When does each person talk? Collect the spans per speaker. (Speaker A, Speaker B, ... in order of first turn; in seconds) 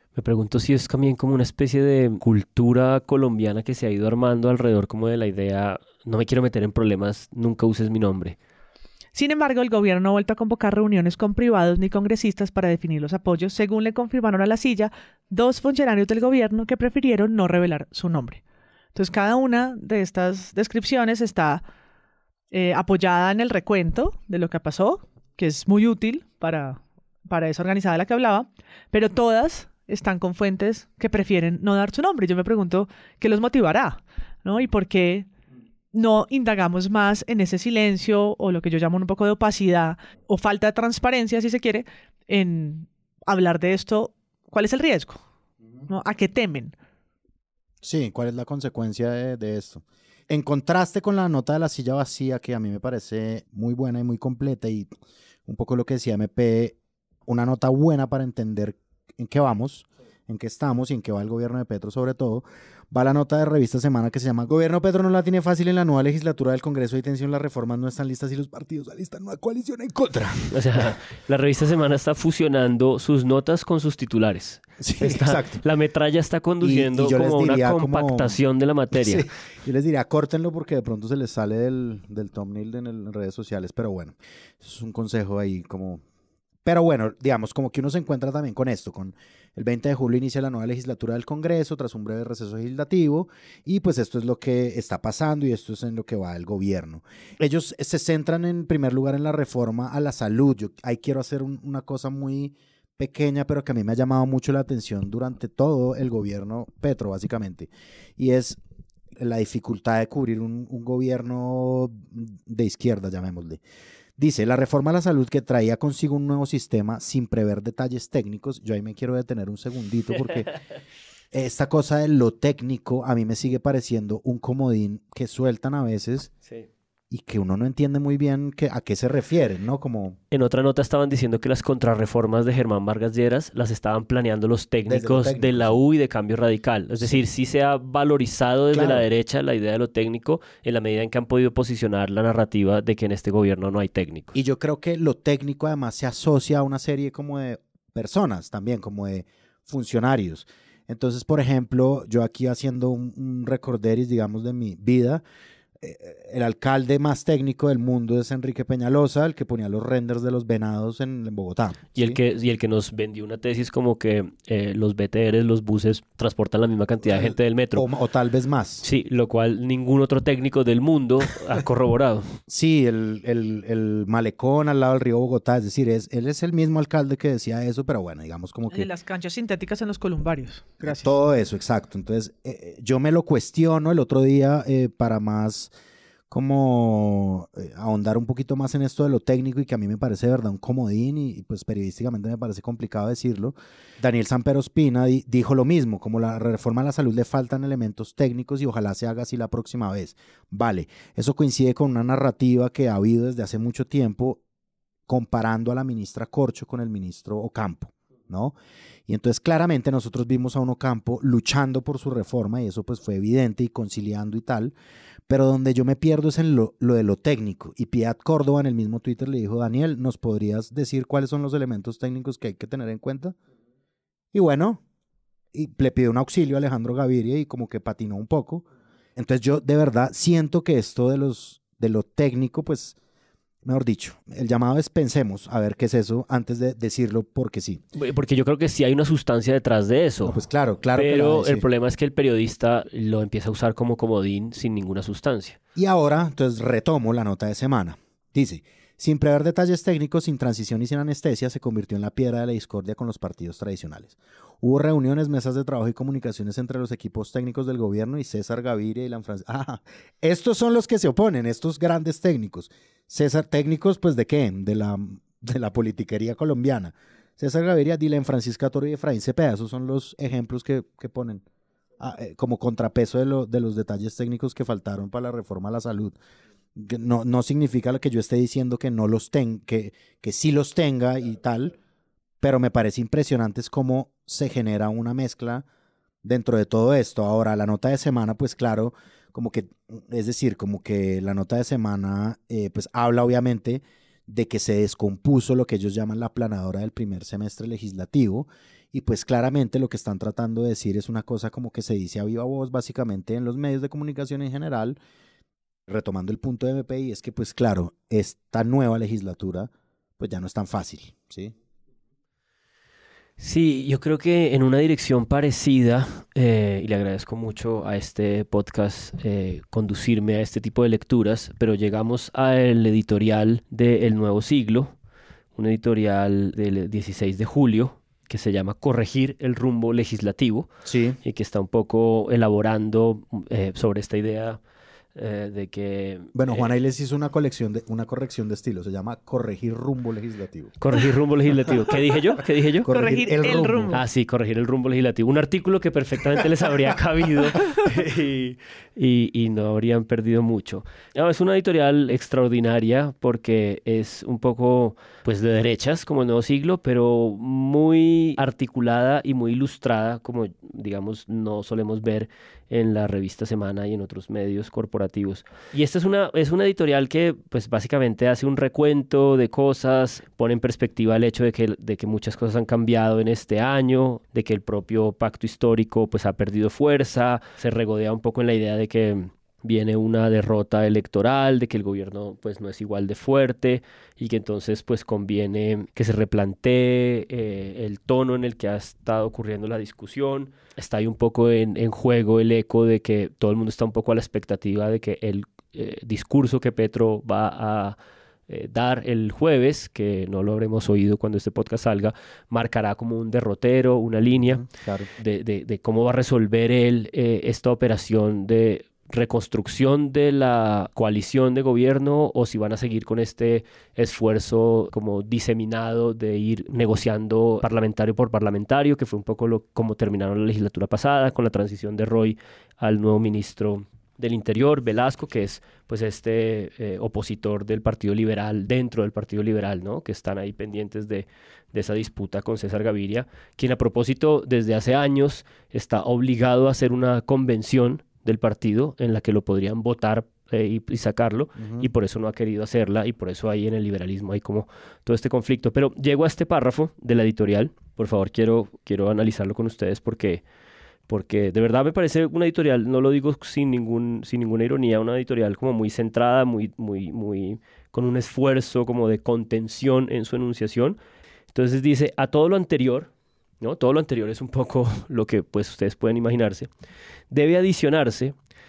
Speaker A: 0.2-8.4, 70.5-79.3, 130.3-144.3, 161.9-167.9, 168.8-172.4, 237.9-240.4, 240.9-245.6, 313.4-324.9, 325.6-330.7, 331.2-334.6, 335.2-336.7, 340.8-342.9, 343.9-398.0, 398.5-404.6, 405.2-450.4, 451.1-461.0, 461.5-463.1, 463.6-466.7, 467.3-468.4
Speaker B: 9.2-18.4, 18.9-21.6, 22.5-35.3, 35.9-45.2, 45.9-46.7, 178.7-181.1, 342.9-344.0
Speaker C: 47.8-54.9, 55.5-70.9, 74.8-75.6, 76.6-78.4, 78.9-86.0, 86.7-108.6, 109.2-113.6, 114.2-120.5, 121.3-126.3, 127.1-130.2, 134.9-135.8, 138.7-139.1, 144.3-155.2, 155.8-162.2, 167.0-168.8, 172.5-178.9, 180.8-185.7, 186.3-204.4, 205.1-208.6, 209.1-214.8, 215.3-223.4, 224.3-224.8, 225.5-228.7, 229.2-233.0, 233.7-237.8, 240.2-241.7, 245.8-271.4, 272.0-276.2, 276.8-281.8, 282.4-285.7, 286.2-305.0, 305.9-311.5, 330.9-331.2, 336.3-340.8, 342.8-344.0, 404.5-405.1, 441.6-441.9